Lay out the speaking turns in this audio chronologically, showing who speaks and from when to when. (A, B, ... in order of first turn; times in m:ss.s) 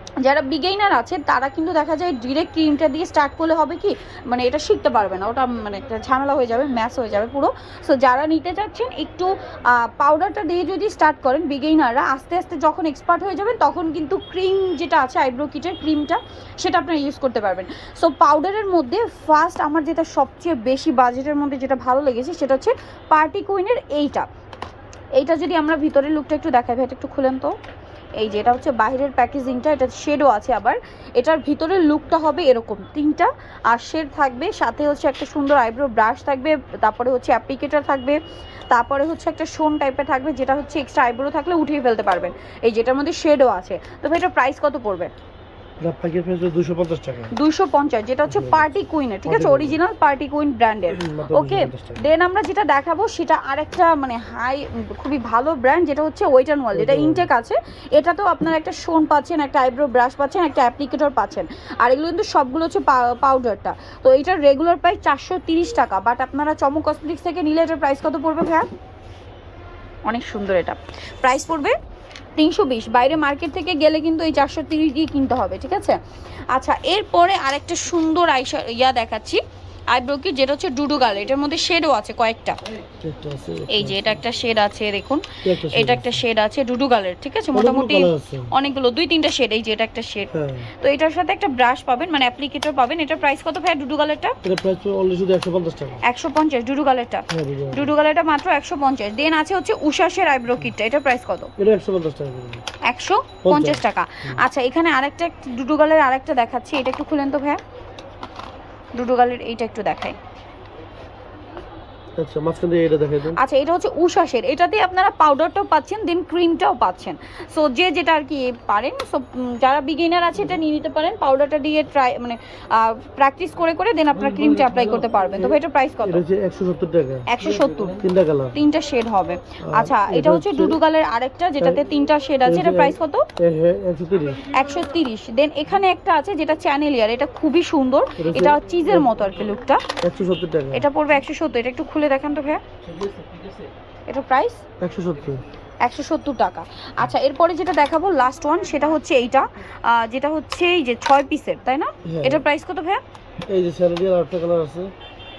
0:00.2-0:24.3 A
0:25.2-0:27.6 A
0:28.2-0:38.2 A
0:38.7-0:45.1 A
0:45.8-0:47.3 B
0:47.3-1:08.6 A
0:48.2-0:49.8 B
0:50.9-0:52.1 B
0:56.7-0:57.3 B
1:10.0-1:11.8 A
1:12.4-1:16.0 A
1:16.5-1:22.6 A
1:23.0-1:24.2 B
1:23.7-1:34.4 A
1:25.4-1:26.2 B
1:27.5-1:28.5 B
1:30.3-1:30.7 B
1:34.4-1:36.0 B
1:36.0-1:41.5 A
1:37.3-1:37.9 B
1:41.6-1:42.6 B
1:42.8-1:47.6 A
1:43.4-1:44.4 B
1:48.9-1:50.2 A
1:52.2-1:53.4 B
1:53.3-2:06.2 A
2:05.3-2:07.3 B
2:07.3-2:13.2 A
2:08.0-2:08.6 B
2:09.6-2:10.8 B
2:12.4-2:14.5 B
2:14.5-2:19.8 A
2:18.2-2:19.2 B
2:20.0-2:20.9 B
2:20.7-2:22.6 A
2:24.1-2:24.6 A
2:24.8-2:25.4 B
2:25.8-2:33.0 A
2:32.0-2:32.4 B
2:33.5-2:34.9 B